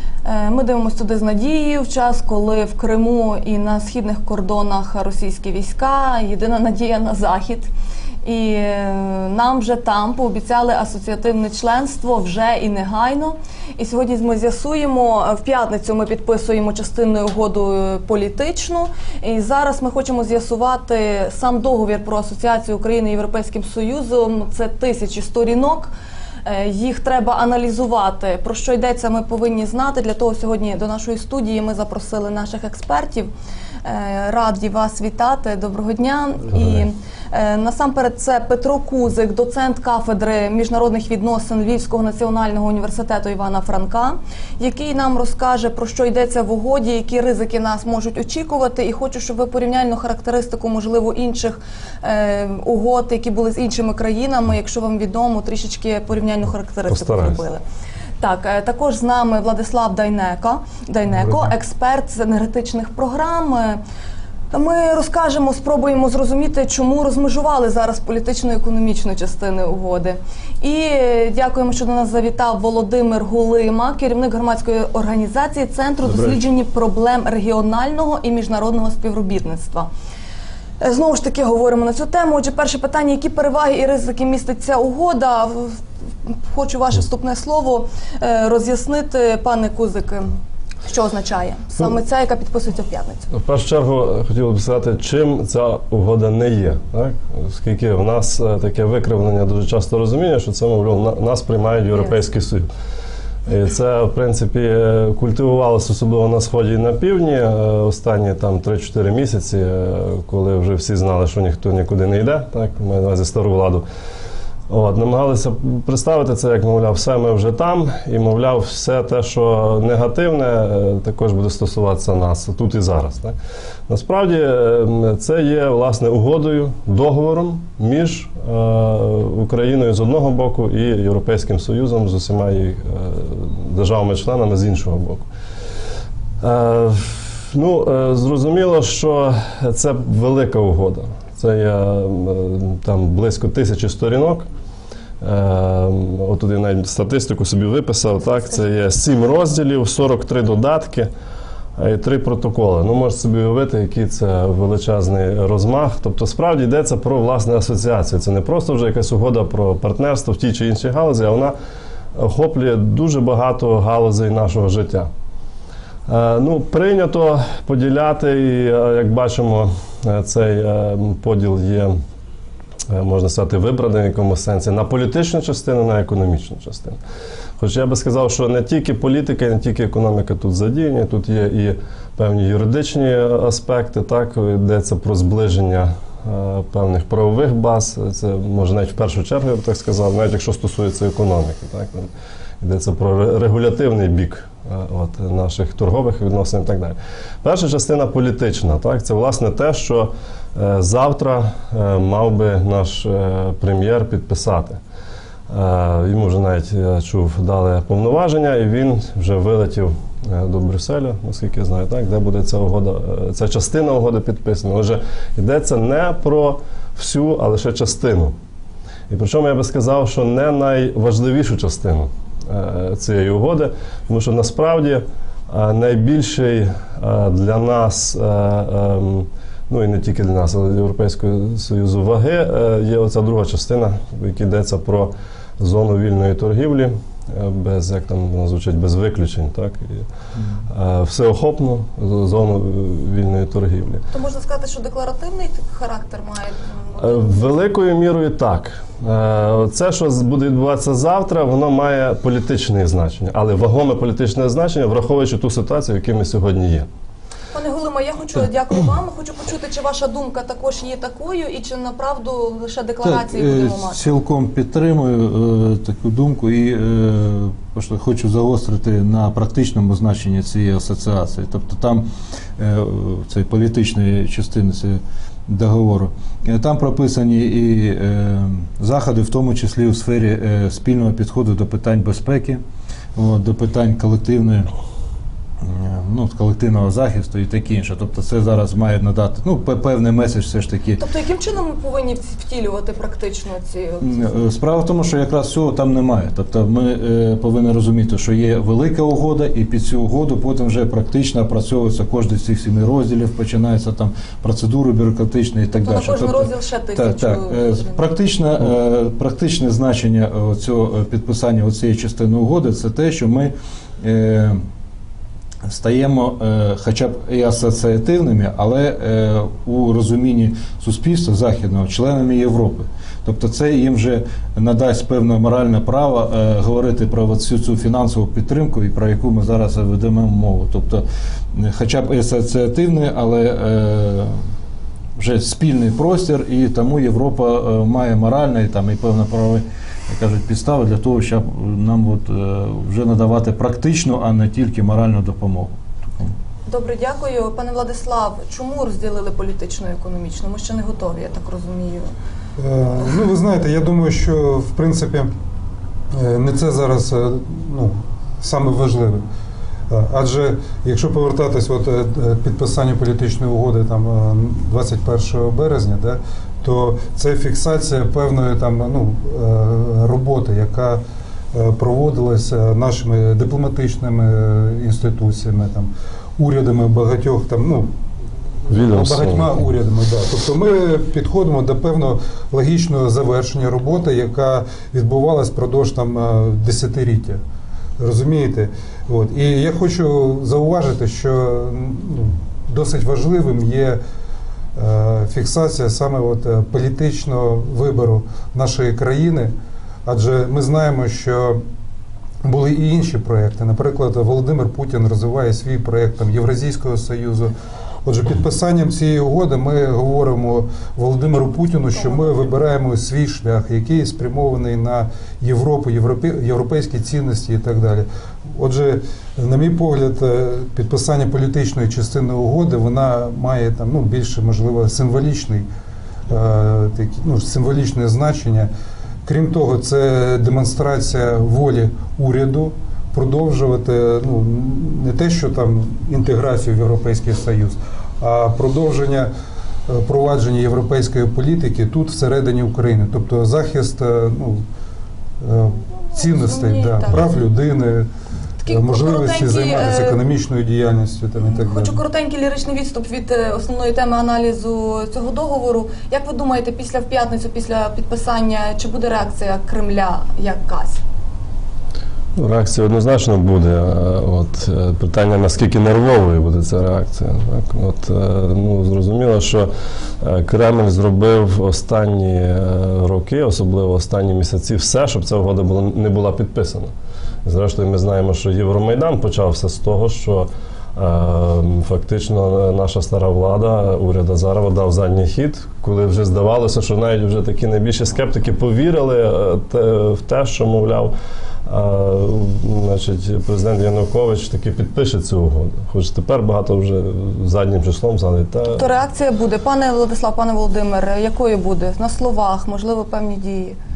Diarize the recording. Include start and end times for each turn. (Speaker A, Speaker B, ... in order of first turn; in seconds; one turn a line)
Speaker A: 0.2-7.7
Speaker A: 8.2-25.9
Speaker A: 26.4-33.3
Speaker A: 33.8-57.6
Speaker B: 36.5-36.8
Speaker B: 56.9-57.4
Speaker A: 58.2-63.8
Speaker A: 64.5-79.9
Speaker C: 76.0-76.4
Speaker A: 80.8-93.3
Speaker B: 93.3-102.7
Speaker B: 103.5-113.8
Speaker B: 114.7-123.3
Speaker B: 123.9-135.3
Speaker B: 136.4-144.4
Speaker B: 145.2-151.1
Speaker B: 151.8-161.5
Speaker B: 162.2-165.1
Speaker B: 166.1-172.0
Speaker B: 172.9-177.0
Speaker B: 177.6-192.1
Speaker B: 192.6-204.8
Speaker B: 205.5-218.3
Speaker B: 219.1-240.1
Speaker B: 240.7-244.0
Speaker A: 244.1-247.5
Speaker B: 247.0-256.9
Speaker A: 257.5-264.0
Speaker C: 263.0-272.1
Speaker C: 272.6-282.6
Speaker C: 283.2-284.7
Speaker C: 285.6-291.0
Speaker A: 291.0-294.3
Speaker C: 294.0-314.6
Speaker A: 305.8-308.0
Speaker C: 315.6-334.4
Speaker C: 335.2-346.4
Speaker A: 346.7-352.1
Speaker D: 352.6-355.3
Speaker D: 356.1-359.2
Speaker D: 359.9-371.0
Speaker D: 371.5-377.9
Speaker B: 378.7-379.5
Speaker D: 378.7-387.4
Speaker D: 388.0-394.0
Speaker D: 394.8-399.5
Speaker D: 400.1-401.6
Speaker D: 402.4-407.5
Speaker D: 408.0-425.7
Speaker D: 426.3-428.7
Speaker D: 429.3-439.3
Speaker D: 439.9-444.6
Speaker D: 445.4-448.1
Speaker A: 446.1-447.2
Speaker A: 448.6-450.2
Speaker D: 448.7-452.0
Speaker A: 451.4-461.0
Speaker B: 462.4-469.7
Speaker B: 470.2-476.9
Speaker B: 477.4-491.1
Speaker B: 491.7-498.9
Speaker A: 498.7-503.8